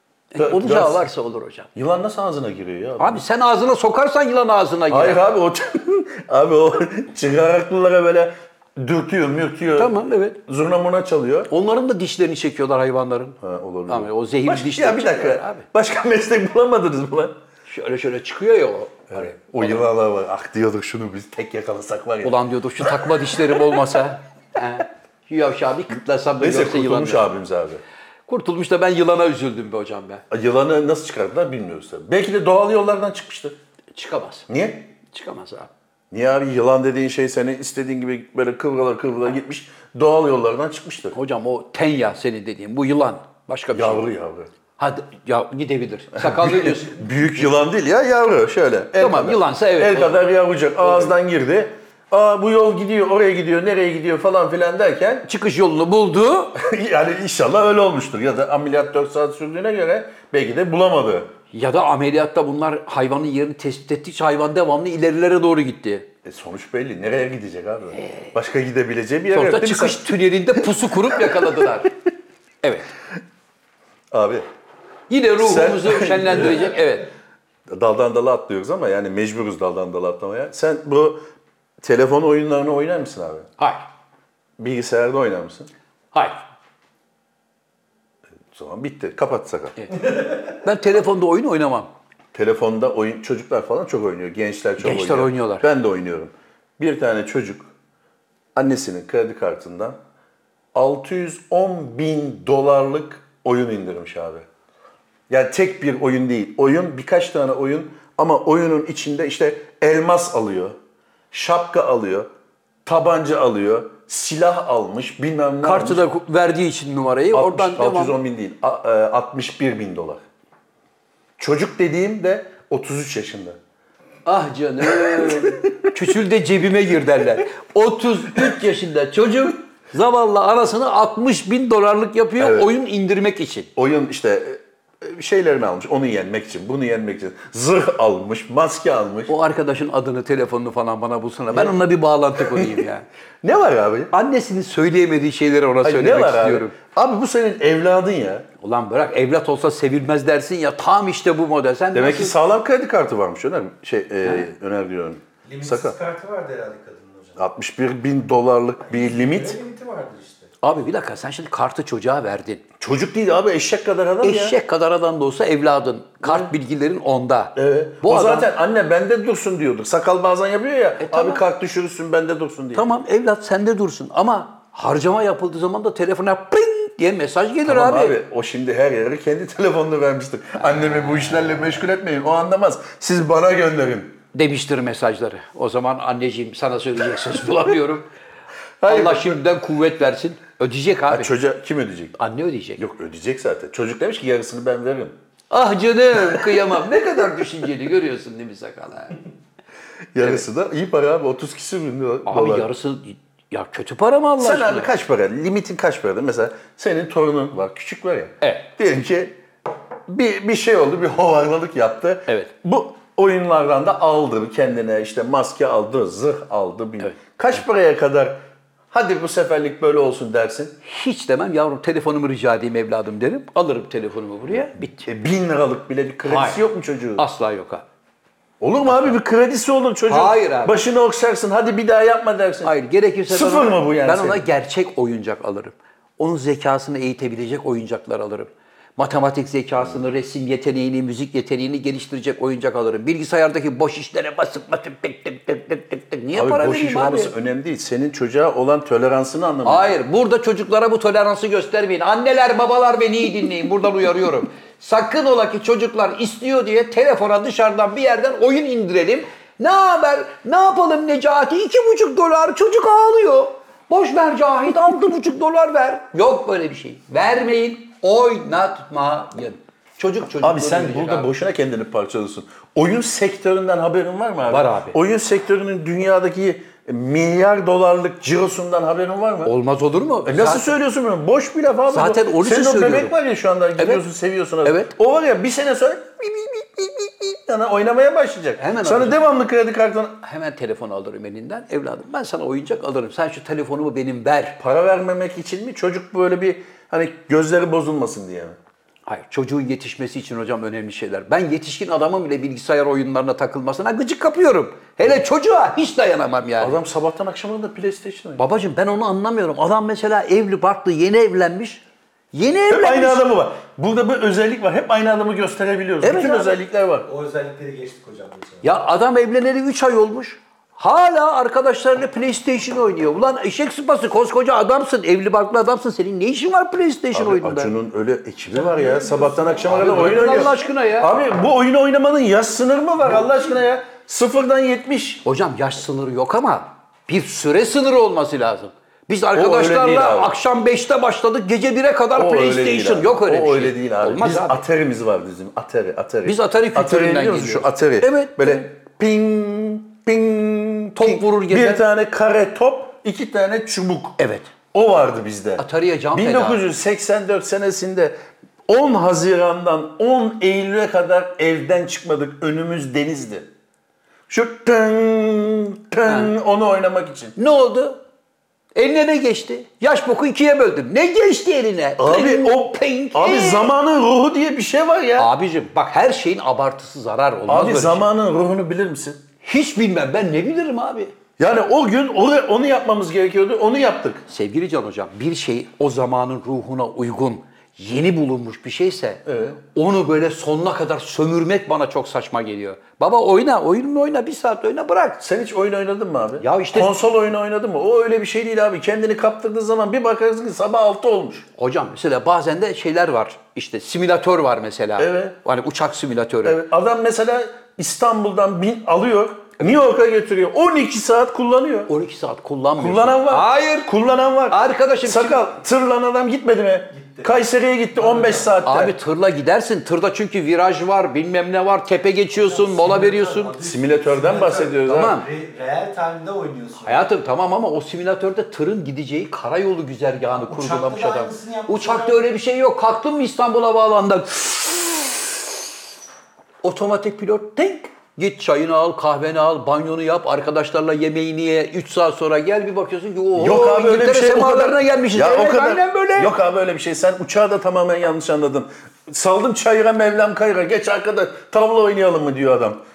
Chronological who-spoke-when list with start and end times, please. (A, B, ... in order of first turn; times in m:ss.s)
0:00.3-0:01.7 A
0:00.4-0:01.1 B
0:01.8-0:03.2 B
0:03.0-0:05.2 A
0:04.9-0:09.9 B
0:09.8-0:10.4 A
0:10.5-0:11.5 B
0:11.5-0:15.7 A
0:13.4-0:17.4 B
0:17.7-0:19.8 A
0:19.1-0:23.8 B
0:22.2-0:27.3 A
0:26.4-0:27.8 B
0:28.3-0:30.2 A
0:30.3-0:33.6 B
0:34.0-0:34.5 A
0:34.5-0:34.9 B
0:35.1-0:35.7 A
0:36.1-0:41.2 B
0:41.1-0:44.0 A
0:43.7-0:44.5 B
0:44.8-0:47.2 A
0:46.2-0:55.3 B
0:49.0-0:50.2 A
0:50.8-0:51.1 A
0:55.3-0:56.6 A
0:56.6-1:01.3 B
1:01.5-1:06.1 A
1:06.2-1:11.5 B
1:08.0-1:08.3 A
1:09.3-1:11.9 A
1:12.6-1:12.9 A
1:14.1-1:14.5 B
1:15.1-1:17.1 A
1:15.4-1:16.6 B
1:17.7-1:21.2 B
1:21.8-1:23.5 B
1:24.6-1:25.7 B
1:26.1-1:26.4 A
1:28.5-1:29.8 B
1:29.8-1:31.9 A
1:32.3-1:37.7 B
1:34.8-1:35.7 A
1:38.6-1:40.0 B
1:40.7-1:44.5 B
1:45.3-1:50.8 B
1:51.3-1:52.3 B
1:52.8-1:56.0 B
1:55.6-1:58.2 A
1:57.3-2:00.2 B
2:01.4-2:03.6 B
2:04.3-2:13.7 A
2:04.9-2:05.9 B
2:12.4-2:12.7 B
2:13.8-2:19.3 B
2:19.3-2:23.1 A
2:22.4-2:22.9 B
2:23.4-2:24.1 B
2:24.1-2:26.8 A
2:25.8-2:28.5 B
2:28.6-2:32.4 A
2:31.9-2:36.0 B
2:35.4-2:37.4 C
2:37.4-2:39.6 B
2:38.9-2:40.5 C
2:40.6-2:42.6 A
2:42.8-2:44.6 B
2:44.2-2:48.5 A
2:46.2-2:46.5 B
2:47.6-2:52.8 B
2:51.0-2:51.4 A
2:52.7-2:58.2 A
2:57.6-3:04.2 B
3:00.6-3:01.5 A
3:04.3-3:08.1 A
3:08.8-3:09.4 B
3:08.9-3:11.3 A
3:11.1-3:12.2 B
3:12.2-3:12.8 A
3:12.8-3:15.2 B
3:15.5-3:19.2 A
3:20.1-3:22.7 B
3:22.3-3:24.9 A
3:24.4-3:29.4 B
3:28.4-3:28.7 A
3:30.1-3:38.4 B
3:38.9-3:40.8 B
3:40.8-3:45.1 A
3:45.0-3:47.2 B
3:46.2-3:46.6 A
3:47.2-3:47.8 A
3:48.6-3:52.7 B
3:48.9-3:49.2 A
3:50.1-3:50.8 A
3:52.6-4:07.3 A
3:53.3-3:54.4 B
4:06.3-4:10.0 B
4:09.6-4:31.3 A
4:30.4-4:39.5 B
4:34.5-4:35.0 A
4:39.4-4:40.8 A
4:40.2-4:50.2 B
4:41.9-4:43.2 A
4:43.8-4:44.0 A
4:44.6-4:44.9 A
4:48.6-4:49.2 A
4:50.2-4:54.6 A
4:54.6-4:58.6 B
4:59.1-5:06.8 A
5:06.6-5:08.4 B
5:08.4-5:13.2 A
5:12.7-5:17.1 B
5:16.0-5:16.5 A
5:17.0-5:18.8 C
5:18.6-5:27.7 A
5:27.1-5:35.2 B
5:28.5-5:30.5 C
5:29.7-5:31.1 A
5:35.2-5:44.6 A
5:39.3-5:40.4 B
5:42.2-5:54.2 B
5:46.2-5:48.6 A
5:51.0-5:51.8 A
5:54.2-5:54.5 A
5:54.7-5:58.2 B
5:55.6-5:56.6 A
5:58.7-6:03.5 B
6:04.3-6:07.4 B
6:06.1-6:06.3 A
6:07.4-6:08.0 A
6:08.8-6:13.7 A
6:12.0-6:15.3 B
6:15.2-6:18.1 A
6:17.5-6:19.2 B
6:19.4-6:21.1 A
6:21.4-6:24.2 B
6:24.3-6:35.2 A
6:29.3-6:29.6 B
6:35.2-6:41.5 B
6:36.4-6:37.0 A
6:41.6-6:46.6 A
6:45.0-6:45.4 B
6:46.4-6:51.9 B
6:51.9-6:53.9 A
6:52.8-6:59.0 B
6:54.5-6:55.5 A
6:56.9-6:57.3 C
6:58.0-6:58.6 C
6:58.6-7:03.5 A
7:02.3-7:07.1 C
7:03.6-7:05.2 B
7:04.9-7:05.3 A
7:06.8-7:15.3 A
7:10.3-7:12.4 C
7:16.6-7:26.3 A
7:23.4-7:32.8 B